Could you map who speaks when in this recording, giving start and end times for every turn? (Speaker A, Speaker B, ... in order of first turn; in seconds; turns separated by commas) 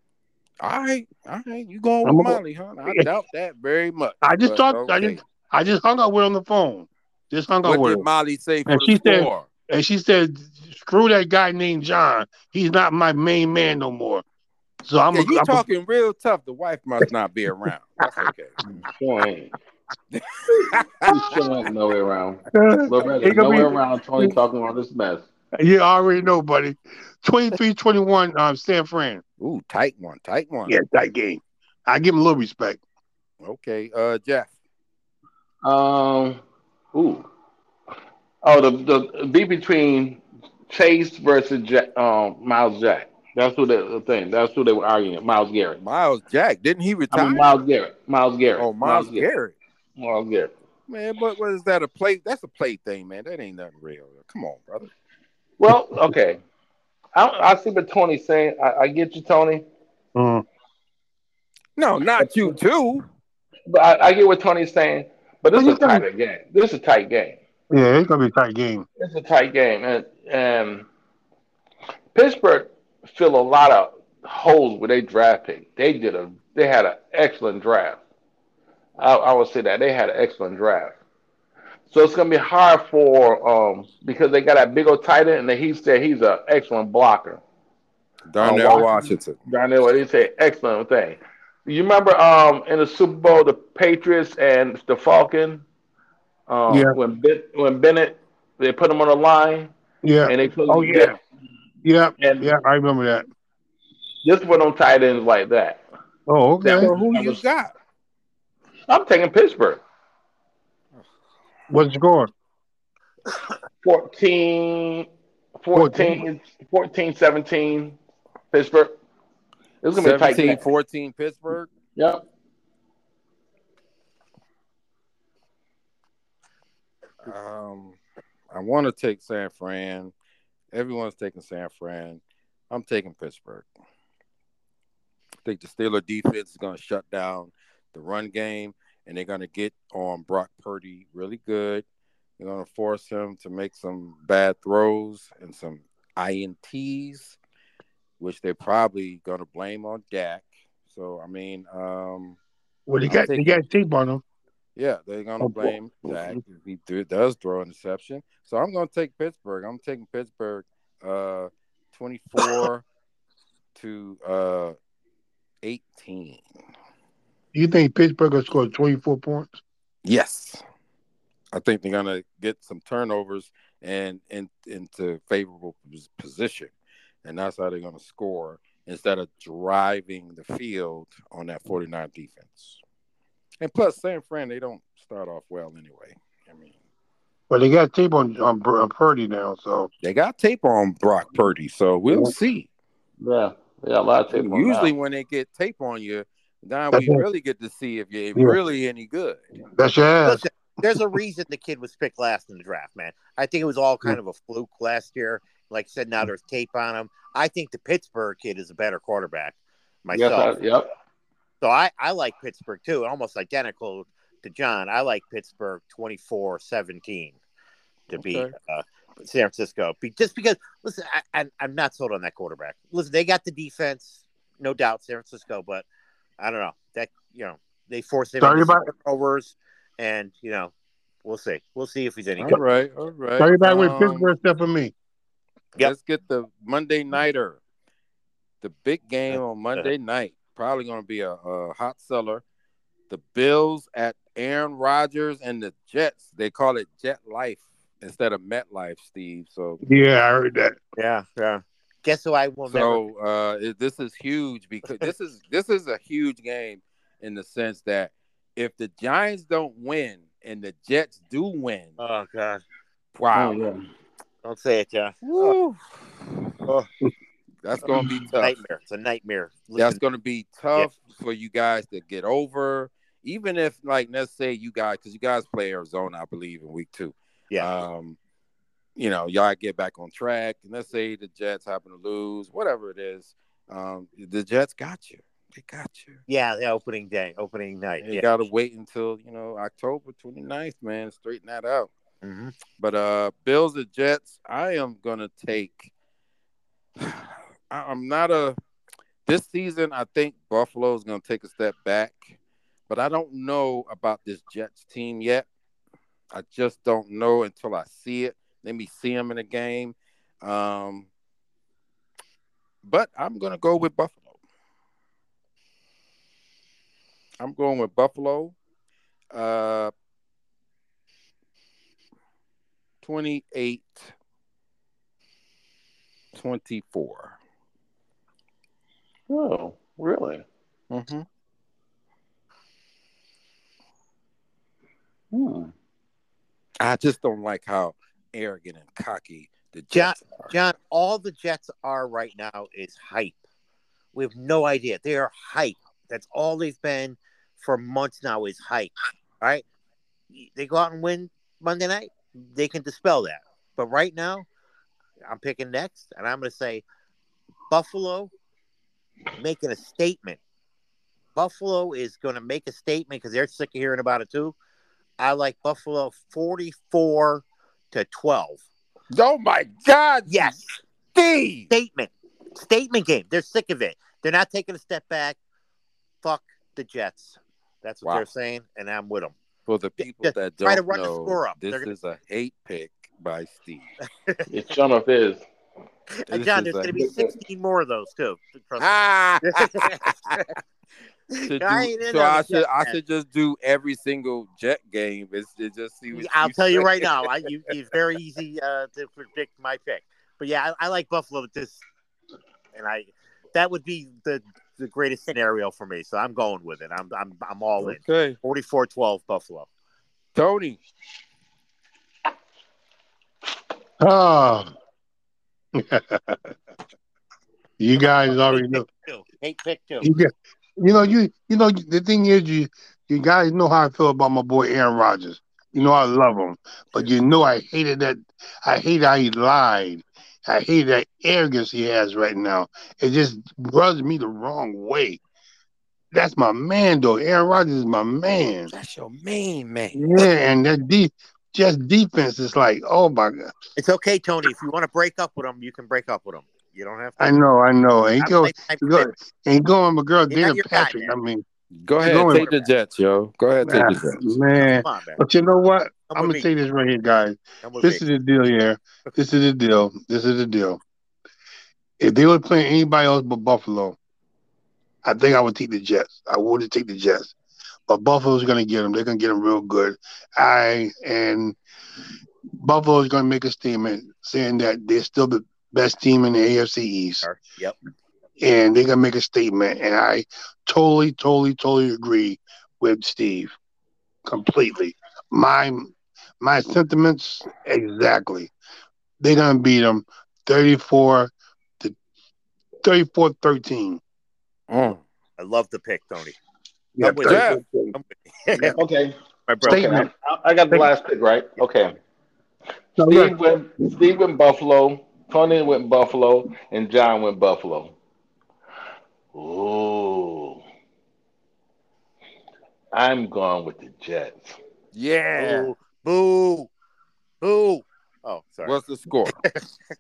Speaker A: 0.6-5.2, Speaker B: 2.0-3.1, Speaker B: 4.2-8.1, Speaker A: 7.6-9.5, Speaker B: 8.7-14.2, Speaker B: 14.8-15.6, Speaker A: 15.1-18.6, Speaker C: 18.9-19.5, Speaker A: 20.1-21.4, Speaker C: 21.1-25.2, Speaker B: 22.5-24.4, Speaker B: 25.6-29.2, Speaker A: 29.4-30.8, Speaker B: 30.7-32.8, Speaker A: 33.4-34.5, Speaker C: 35.6-36.4, Speaker C: 36.9-37.3, Speaker C: 38.4-45.8, Speaker A: 45.8-47.5, Speaker C: 47.1-49.3, Speaker A: 48.6-49.6, Speaker C: 50.0-50.5, Speaker A: 50.9-54.9, Speaker C: 55.6-56.4, Speaker C: 57.1-59.7, Speaker B: 60.1-60.4, Speaker A: 61.8-63.1, Speaker C: 62.2-62.6, Speaker C: 63.7-67.4, Speaker B: 65.6-66.0, Speaker B: 67.7-68.9, Speaker C: 69.0-70.9, Speaker C: 72.1-78.0, Speaker C: 79.0-81.0, Speaker C: 81.9-87.4, Speaker A: 88.3-89.4, Speaker C: 88.4-95.6, Speaker C: 96.5-99.7, Speaker B: 96.7-97.0, Speaker B: 100.0-101.2, Speaker C: 100.2-101.2, Speaker B: 101.8-103.2, Speaker C: 102.2-102.5, Speaker C: 104.2-105.8, Speaker B: 106.3-106.9, Speaker C: 106.6-107.4, Speaker A: 106.8-107.7, Speaker C: 108.9-109.8, Speaker B: 111.7-112.3, Speaker C: 113.8-115.1, Speaker C: 115.6-118.0, Speaker B: 115.7-116.2, Speaker C: 118.5-119.0, Speaker C: 119.8-120.7, Speaker A: 120.0-121.7, Speaker C: 122.0-122.2, Speaker A: 127.2-128.0, Speaker A: 128.5-130.1, Speaker A: 130.7-133.7, Speaker A: 135.4-141.8, Speaker A: 142.4-147.4, Speaker A: 148.2-152.4, Speaker B: 152.9-154.2, Speaker A: 153.1-153.6, Speaker A: 154.8-162.8, Speaker B: 155.4-156.4, Speaker A: 163.8-164.8, Speaker A: 165.6-166.4, Speaker B: 167.5-169.5, Speaker A: 170.1-170.6, Speaker A: 171.5-176.7, Speaker A: 177.2-182.8, Speaker A: 183.6-186.7, Speaker B: 187.5-189.9, Speaker A: 190.0-192.7, Speaker C: 193.2-194.9, Speaker A: 194.3-199.4, Speaker B: 196.9-197.2, Speaker B: 199.8-201.0, Speaker D: 200.2-210.6, Speaker C: 210.1-210.9, Speaker D: 211.6-217.4, Speaker A: 218.1-218.5, Speaker D: 218.1-225.9, Speaker D: 226.4-230.7, Speaker B: 228.4-228.9, Speaker D: 231.2-232.6, Speaker A: 232.4-234.3, Speaker B: 233.4-234.9, Speaker A: 235.8-237.6, Speaker A: 238.6-242.4, Speaker D: 239.3-239.9, Speaker A: 243.1-249.8, Speaker B: 249.8-250.8, Speaker D: 251.0-253.0, Speaker A: 252.7-261.9, Speaker D: 262.0-262.6, Speaker A: 263.1-263.6, Speaker C: 263.3-263.9, Speaker D: 264.4-265.5, Speaker A: 265.2-266.3, Speaker A: 267.6-268.5, Speaker D: 268.4-270.0, Speaker A: 269.8-278.2, Speaker A: 279.0-286.2, Speaker D: 286.3-288.3, Speaker A: 288.0-291.9, Speaker D: 292.2-292.5, Speaker A: 292.8-295.9, Speaker A: 297.0-298.6, Speaker A: 299.3-302.4, Speaker A: 302.9-305.5, Speaker A: 306.3-311.1, Speaker A: 312.8-314.3, Speaker A: 317.4-318.6, Speaker A: 319.3-319.9, Speaker A: 323.0-324.1, Speaker A: 326.3-327.4, Speaker C: 329.3-330.4, Speaker A: 330.9-331.3, Speaker C: 335.3-335.7, Speaker A: 336.8-340.5, Speaker D: 339.9-343.4, Speaker D: 344.1-349.6, Speaker D: 350.3-354.5, Speaker D: 355.3-356.8, Speaker D: 357.7-358.3, Speaker D: 359.4-360.4, Speaker D: 361.4-364.6, Speaker D: 365.2-368.6, Speaker A: 369.1-370.6, Speaker D: 370.3-370.6, Speaker A: 371.1-371.7, Speaker D: 371.7-375.4, Speaker D: 376.2-379.3, Speaker A: 379.7-383.9, Speaker D: 380.0-381.9, Speaker C: 384.5-385.4, Speaker D: 386.1-390.5, Speaker A: 386.3-386.9, Speaker C: 386.9-387.3, Speaker A: 388.8-390.5, Speaker D: 391.3-393.0, Speaker A: 391.4-397.3, Speaker D: 396.1-401.8, Speaker D: 402.7-409.7, Speaker A: 407.8-408.4, Speaker A: 410.4-410.8, Speaker B: 414.0-414.7, Speaker B: 415.8-416.5, Speaker B: 417.8-418.9, Speaker D: 418.4-420.1, Speaker B: 420.0-435.2, Speaker B: 436.1-438.7, Speaker A: 438.7-440.1, Speaker B: 439.9-443.5, Speaker D: 443.8-447.2, Speaker B: 447.2-451.4, Speaker D: 448.2-449.1, Speaker D: 450.3-451.1, Speaker A: 451.8-454.4, Speaker B: 452.0-452.4, Speaker D: 452.2-452.7, Speaker B: 453.6-460.8, Speaker D: 454.6-455.2, Speaker D: 456.1-456.5, Speaker D: 457.6-458.0, Speaker B: 462.0-464.0, Speaker B: 465.0-467.4, Speaker B: 467.9-471.6, Speaker B: 472.6-477.2, Speaker D: 477.2-477.8, Speaker B: 478.4-483.5, Speaker B: 484.3-488.5, Speaker B: 489.2-492.0, Speaker B: 492.8-494.0, Speaker A: 494.7-495.0, Speaker D: 495.4-496.4, Speaker B: 497.0-497.9, Speaker D: 497.0-498.8, Speaker A: 497.2-497.6, Speaker C: 498.8-499.1, Speaker D: 499.5-500.0, Speaker B: 499.6-500.1, Speaker C: 499.7-501.9, Speaker B: 503.0-503.4, Speaker C: 503.1-507.9, Speaker C: 509.3-510.6, Speaker C: 512.9-514.6, Speaker A: 514.9-515.7, Speaker D: 515.4-516.7, Speaker D: 517.4-518.8, Speaker A: 518.6-519.4, Speaker D: 519.3-519.6